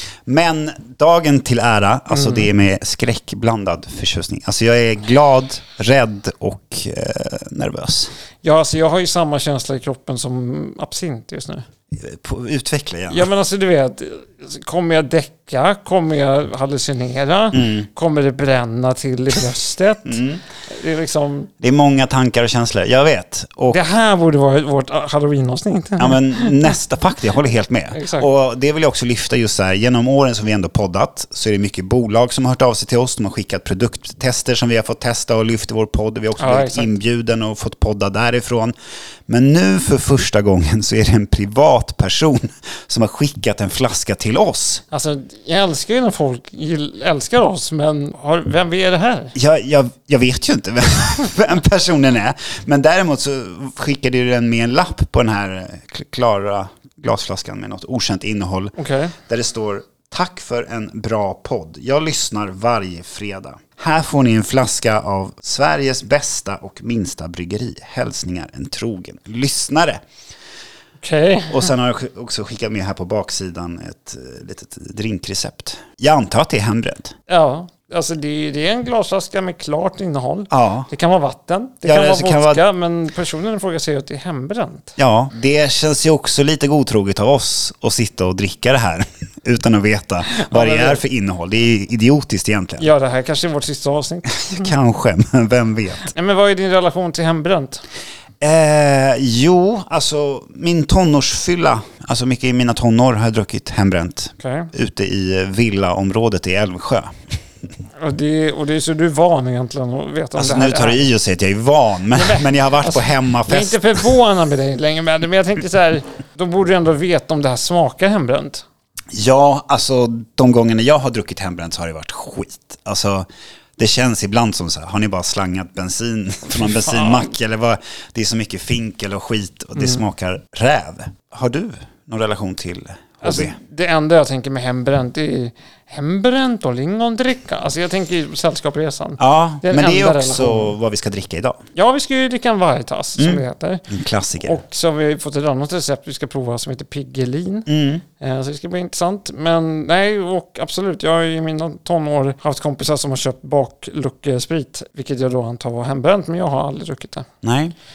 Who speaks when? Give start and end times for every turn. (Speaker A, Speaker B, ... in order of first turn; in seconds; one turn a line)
Speaker A: 0.3-8.1
Speaker B: 2.1-2.5
Speaker B: 8.4-11.6
Speaker A: 11.9-13.3
Speaker B: 13.1-21.5
Speaker A: 17.5-17.9
Speaker A: 20.1-20.4
Speaker A: 21.6-23.8
Speaker B: 23.7-26.7
Speaker A: 26.0-38.8
Speaker B: 27.9-28.3
Speaker B: 36.4-36.9
Speaker A: 39.3-44.8
Speaker B: 44.9-49.3
Speaker A: 49.3-70.0
Speaker B: 58.8-59.1
Speaker B: 71.0-71.7
Speaker A: 71.5-77.1
Speaker B: 77.3-84.9
Speaker A: 80.5-80.9
Speaker A: 81.8-82.6
Speaker A: 85.0-92.9
Speaker B: 90.3-91.0
Speaker B: 92.8-94.7
Speaker A: 94.4-96.1
Speaker B: 96.0-97.8
Speaker A: 98.4-107.2
Speaker B: 104.4-104.7
Speaker B: 108.0-111.1
Speaker A: 110.4-113.8
Speaker B: 112.1-118.7
Speaker A: 119.1-123.3
Speaker A: 123.8-133.6
Speaker B: 126.5-127.3
Speaker B: 129.8-130.0
Speaker B: 133.2-140.8
Speaker A: 139.2-141.6
Speaker B: 141.8-143.8
Speaker A: 143.2-144.6
Speaker B: 144.4-147.7
Speaker A: 147.7-148.0
Speaker B: 148.2-157.3
Speaker A: 157.4-157.8